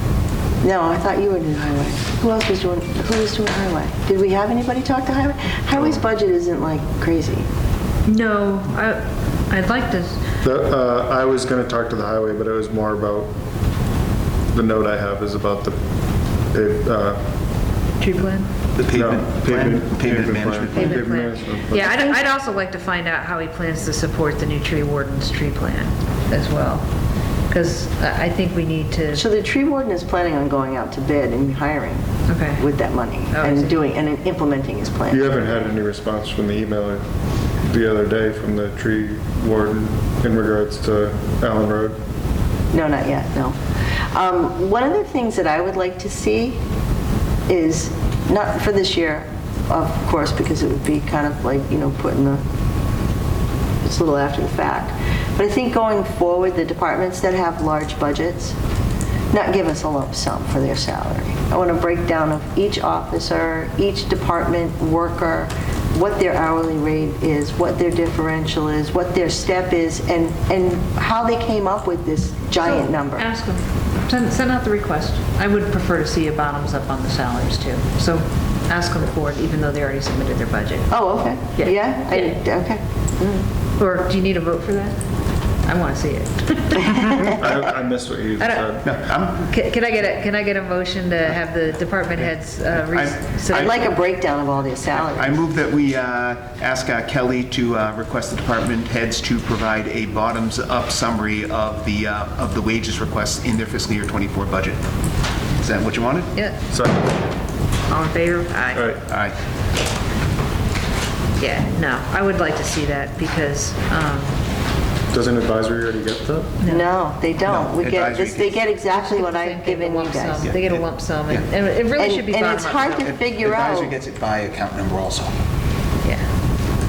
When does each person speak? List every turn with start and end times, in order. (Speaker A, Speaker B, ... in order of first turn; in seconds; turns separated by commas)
Speaker A: 0.6-7.5, Speaker B: 8.1-10.2, Speaker C: 10.4-13.3, Speaker C: 14.5-15.8, Speaker C: 16.5-17.2, Speaker B: 18.0-18.5, Speaker D: 18.8-21.0, Speaker C: 18.9-22.0, Speaker B: 20.7-26.8, Speaker B: 27.5-29.2, Speaker A: 29.1-32.0, Speaker B: 32.3-32.7, Speaker A: 32.6-35.3, Speaker B: 33.3-33.8, Speaker C: 35.1-37.0, Speaker C: 37.6-42.0, Speaker A: 42.7-43.6, Speaker A: 44.1-46.6, Speaker A: 47.5-52.4, Speaker A: 53.8-58.6, Speaker A: 59.3-73.2, Speaker B: 72.6-80.9, Speaker A: 80.9-83.4, Speaker B: 81.5-82.4, Speaker B: 83.8-85.0, Speaker B: 85.6-87.5, Speaker C: 87.0-88.8, Speaker B: 88.4-93.9, Speaker D: 88.8-89.4, Speaker D: 92.9-93.9, Speaker A: 93.5-95.4, Speaker D: 94.9-104.8, Speaker D: 105.5-106.3, Speaker C: 106.7-107.2, Speaker B: 107.9-108.9, Speaker C: 108.7-109.0, Speaker D: 109.1-109.3, Speaker B: 111.4-114.3, Speaker C: 115.1-116.5, Speaker B: 116.6-116.9, Speaker A: 116.7-120.5, Speaker D: 117.4-118.7, Speaker B: 118.9-123.1, Speaker D: 120.4-121.5, Speaker A: 122.0-123.9, Speaker D: 123.0-125.3